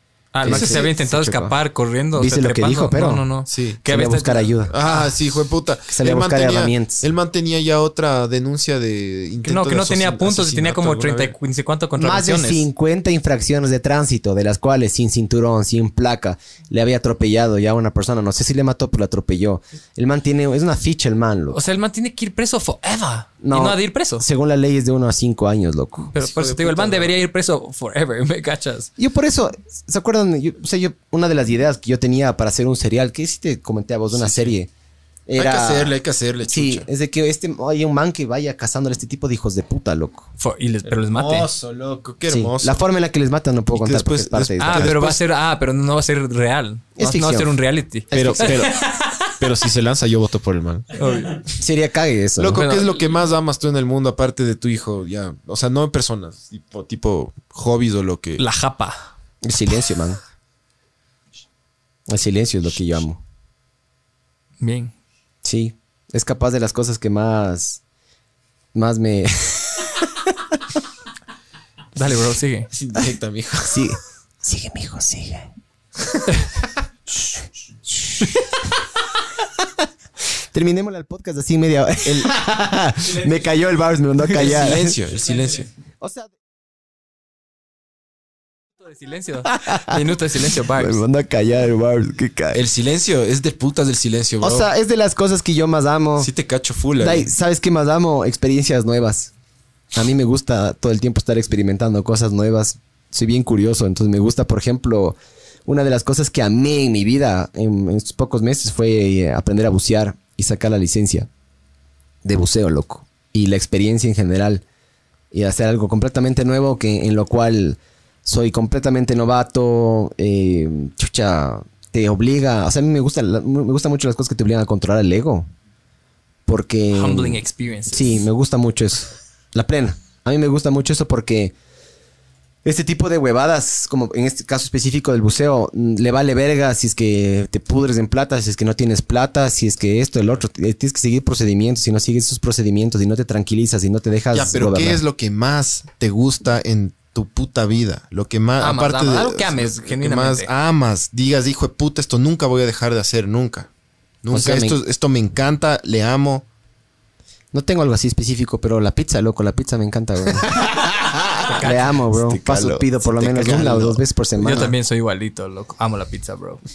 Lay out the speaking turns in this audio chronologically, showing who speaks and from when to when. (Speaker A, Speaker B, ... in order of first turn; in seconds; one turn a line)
Speaker A: 0.3-5.0
Speaker B: 0.4-1.6
Speaker C: 0.4-0.9
Speaker B: 2.1-3.3
Speaker C: 3.5-3.8
Speaker B: 3.9-4.7
Speaker C: 4.7-11.3
Speaker B: 5.9-7.1
Speaker A: 9.4-12.7
Speaker B: 12.0-21.6
Speaker A: 21.5-24.2
Speaker B: 23.4-26.1
Speaker A: 26.1-28.9
Speaker C: 26.1-27.1
Speaker B: 29.0-34.7
Speaker C: 34.1-34.5
Speaker B: 35.3-40.3
Speaker C: 35.4-36.9
Speaker A: 40.4-41.5
Speaker C: 40.9-42.9
Speaker B: 42.3-45.0
Speaker C: 43.7-45.2
Speaker A: 44.6-49.3
Speaker B: 47.0-47.5
Speaker B: 48.1-48.7
Speaker C: 48.1-51.0
Speaker A: 50.9-51.4
Speaker B: 51.5-52.6
Speaker C: 52.4-58.4
Speaker A: 52.5-52.9
Speaker A: 58.4-59.1
Speaker B: 59.4-60.2
Speaker B: 62.1-63.2
Speaker A: 64.6-64.9
Speaker B: 65.4-67.8
Speaker B: 68.7-70.6
Speaker A: 71.9-72.7
Speaker C: 72.7-73.8
Speaker B: 73.6-75.5
Speaker B: 77.9-78.4
Speaker B: 80.5-85.0
Speaker C: 84.3-85.7
Speaker B: 86.0-86.3
Speaker A: 88.8-91.0
Speaker B: 89.5-90.0
Speaker B: 90.7-92.6
Speaker C: 92.5-94.7
Speaker B: 94.4-96.3
Speaker C: 96.2-97.3
Speaker B: 97.0-99.3
Speaker B: 99.9-111.3
Speaker B: 112.2-114.6
Speaker B: 115.3-125.5
Speaker B: 126.5-127.4
Speaker A: 126.9-128.2
Speaker B: 127.9-131.5
Speaker B: 132.6-145.0
Speaker C: 144.3-153.7
Speaker A: 148.6-150.5
Speaker C: 154.2-156.4
Speaker B: 154.3-154.8
Speaker B: 157.5-160.6
Speaker C: 160.4-164.0
Speaker A: 161.4-161.9
Speaker B: 161.6-164.7
Speaker A: 164.4-166.6